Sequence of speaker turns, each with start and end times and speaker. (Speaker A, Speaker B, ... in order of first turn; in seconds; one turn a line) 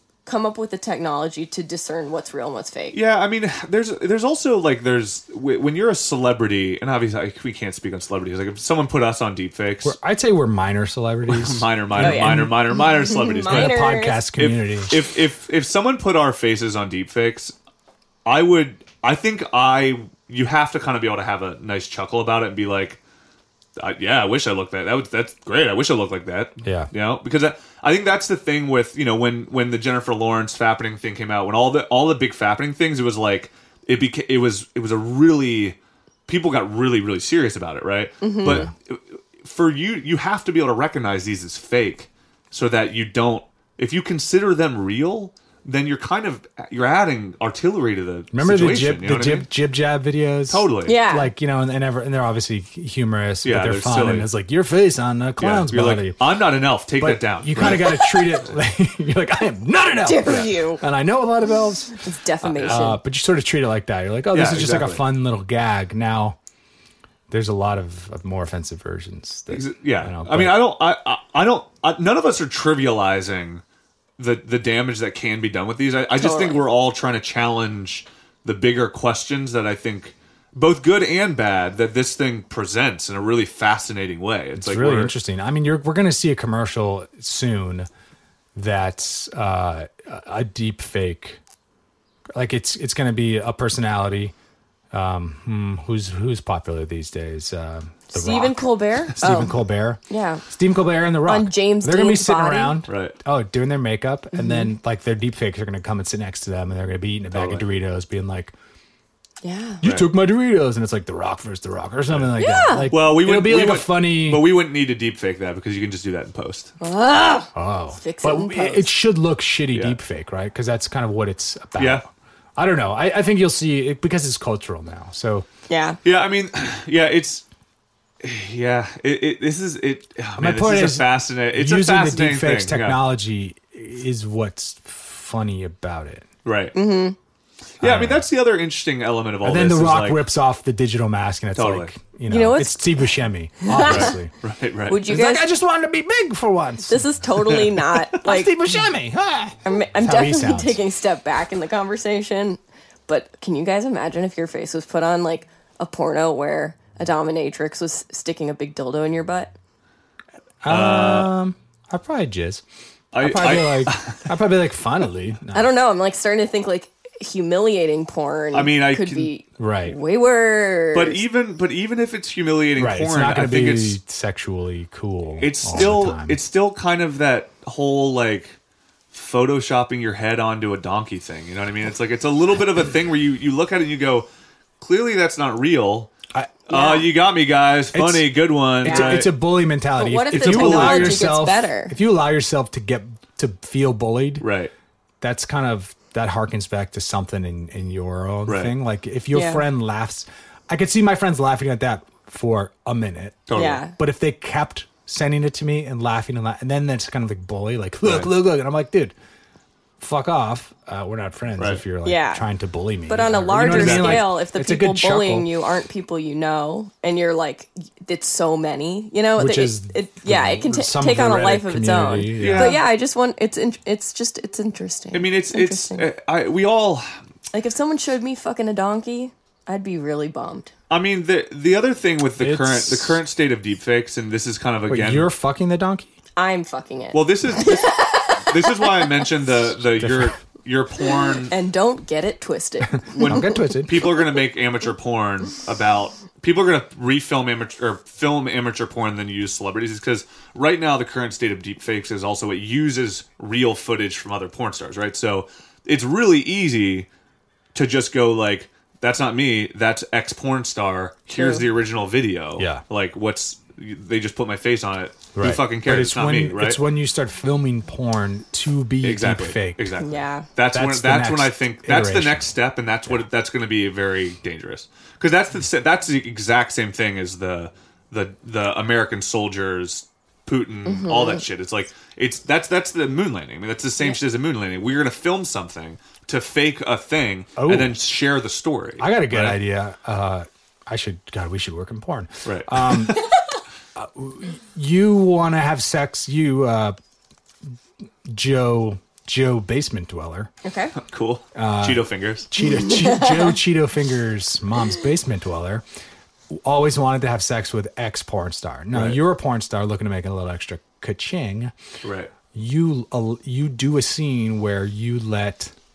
Speaker A: 0.3-3.0
Speaker B: 2.9-10.0
Speaker C: 9.8-12.6
Speaker B: 11.3-13.8
Speaker A: 12.0-14.2
Speaker C: 13.5-14.9
Speaker B: 14.4-17.5
Speaker B: 18.3-23.0
Speaker B: 23.8-35.8
Speaker C: 26.6-26.9
Speaker B: 36.3-49.5
Speaker A: 38.2-38.7
Speaker C: 38.5-38.7
Speaker C: 48.3-56.2
Speaker B: 50.5-51.0
Speaker A: 50.9-51.3
Speaker B: 53.4-54.3
Speaker B: 55.4-58.5
Speaker C: 57.0-62.0
Speaker A: 60.0-60.8
Speaker A: 62.0-63.0
Speaker B: 62.4-62.8
Speaker C: 62.6-66.4
Speaker B: 64.3-65.0
Speaker C: 67.3-70.6
Speaker B: 69.5-73.6
Speaker B: 74.2-85.1
Speaker A: 76.2-76.6
Speaker C: 84.6-87.9
Speaker C: 88.5-91.4
Speaker C: 92.3-94.3
Speaker C: 94.9-108.5
Speaker A: 98.1-99.5
Speaker A: 100.1-100.4
Speaker A: 101.3-102.8
Speaker B: 102.9-103.2
Speaker A: 104.3-104.7
Speaker B: 107.3-107.7
Speaker A: 109.4-109.8
Speaker B: 109.8-110.1
Speaker C: 109.8-114.5
Speaker A: 112.4-112.9
Speaker B: 112.9-116.7
Speaker A: 116.8-118.9
Speaker C: 117.5-122.0
Speaker B: 119.7-120.0
Speaker B: 121.8-122.0
Speaker C: 122.6-125.5
Speaker A: 125.7-126.0
Speaker B: 126.0-127.5
Speaker B: 128.2-133.0
Speaker C: 130.4-136.3
Speaker B: 136.4-136.8
Speaker A: 136.7-137.2
Speaker B: 137.8-140.2
Speaker C: 137.8-138.2
Speaker C: 139.4-144.3
Speaker B: 141.6-141.9
Speaker A: 142.3-143.1
Speaker A: 143.6-144.1
Speaker B: 143.8-145.1
Speaker A: 144.9-145.5
Speaker C: 145.1-147.0
Speaker A: 146.9-148.5
Speaker C: 148.2-150.8
Speaker A: 149.7-159.5
Speaker C: 160.6-162.6
Speaker B: 160.7-161.3
Speaker B: 163.1-164.3
Speaker C: 163.2-165.7
Speaker A: 165.5-171.2
Speaker B: 168.5-169.3
Speaker C: 169.6-170.0
Speaker B: 170.9-174.0
Speaker C: 172.8-176.4
Speaker B: 175.4-178.6
Speaker B: 179.1-184.3
Speaker B: 184.8-186.1
Speaker B: 186.7-189.3
Speaker A: 186.7-187.1
Speaker C: 187.9-188.3
Speaker C: 188.8-194.5
Speaker A: 188.8-189.2
Speaker A: 190.0-192.0
Speaker B: 190.3-191.3
Speaker B: 194.4-194.7
Speaker C: 195.2-209.1
Speaker B: 198.5-198.7
Speaker A: 199.3-199.6
Speaker B: 203.5-203.8
Speaker A: 203.6-203.9
Speaker B: 208.0-208.3
Speaker C: 210.0-215.5
Speaker B: 211.6-211.8
Speaker A: 212.0-212.4
Speaker A: 213.1-226.1
Speaker B: 213.6-214.3
Speaker C: 219.4-222.8
Speaker B: 222.4-222.8
Speaker B: 225.1-227.2
Speaker A: 227.5-230.7
Speaker B: 230.9-235.3
Speaker C: 232.4-233.2
Speaker C: 234.9-236.1
Speaker A: 236.4-239.3
Speaker B: 237.1-241.5
Speaker C: 240.0-240.4
Speaker A: 241.4-243.6
Speaker B: 243.1-257.1
Speaker C: 243.2-244.1
Speaker B: 257.7-266.8
Speaker A: 261.4-261.7
Speaker C: 262.6-262.8
Speaker C: 265.4-269.9
Speaker B: 269.0-289.6
Speaker A: 270.0-270.5
Speaker C: 270.7-272.5
Speaker A: 280.9-281.4
Speaker C: 287.6-288.0
Speaker C: 289.0-293.2
Speaker B: 292.4-293.1
Speaker C: 293.9-297.0
Speaker C: 298.3-300.5
Speaker A: 300.6-300.9
Speaker B: 301.1-302.5
Speaker C: 301.6-305.8
Speaker A: 302.8-303.6
Speaker C: 306.5-311.7
Speaker B: 308.9-309.2
Speaker B: 312.0-312.3
Speaker C: 312.5-315.7